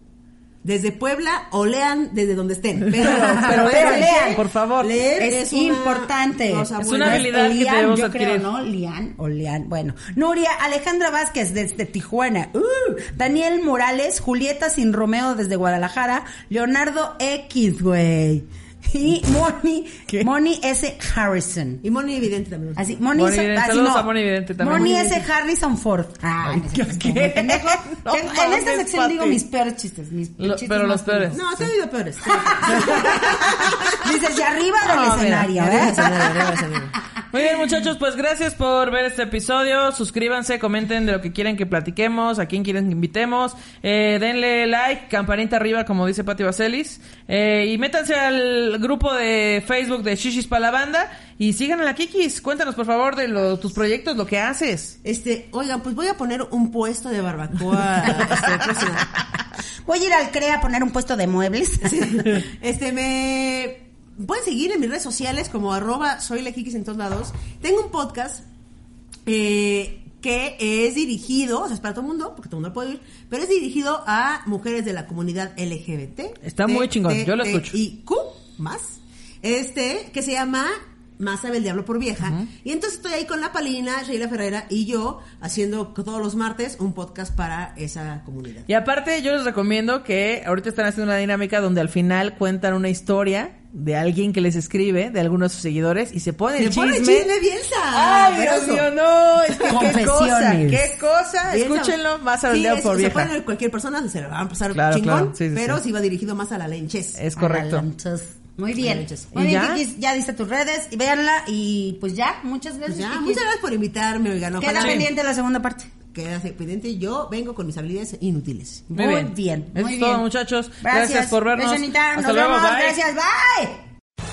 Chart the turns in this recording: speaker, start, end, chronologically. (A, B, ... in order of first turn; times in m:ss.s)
0:00.6-0:07.3 A
0:03.0-0:04.9 B
0:03.0-0:04.4 C
0:05.2-0:21.8 C
0:06.8-0:08.5 B
0:21.8-0:23.0 A
0:22.8-0:31.4 C
0:23.1-0:25.2 B
0:26.4-0:29.4 B
0:30.4-0:31.6 B
0:31.3-0:34.0 A
0:32.3-0:36.3 C
0:32.7-0:33.7 B
0:34.8-0:36.6 B
0:35.5-0:36.9 A
0:37.3-0:55.0 B
0:55.0-0:59.1 A
0:59.8-1:02.4 C
1:01.8-1:08.4 A
1:09.2-1:28.7 A
1:16.4-1:17.8 B
1:28.7-1:37.3 B
1:36.6-1:38.8 A
1:37.9-1:43.3 B
1:39.7-1:40.9 C
1:41.5-1:47.2 A
1:44.7-1:45.8 B
1:47.2-1:47.8 B
1:47.4-1:53.4 C
1:48.8-1:49.3 A
1:49.3-1:49.8 B
1:52.8-1:55.1 A
1:54.6-1:55.9 C
1:54.8-1:55.0 B
1:56.1-1:58.8 A
1:58.9-2:00.2 C
1:58.9-2:03.0 B
2:00.8-2:03.8 C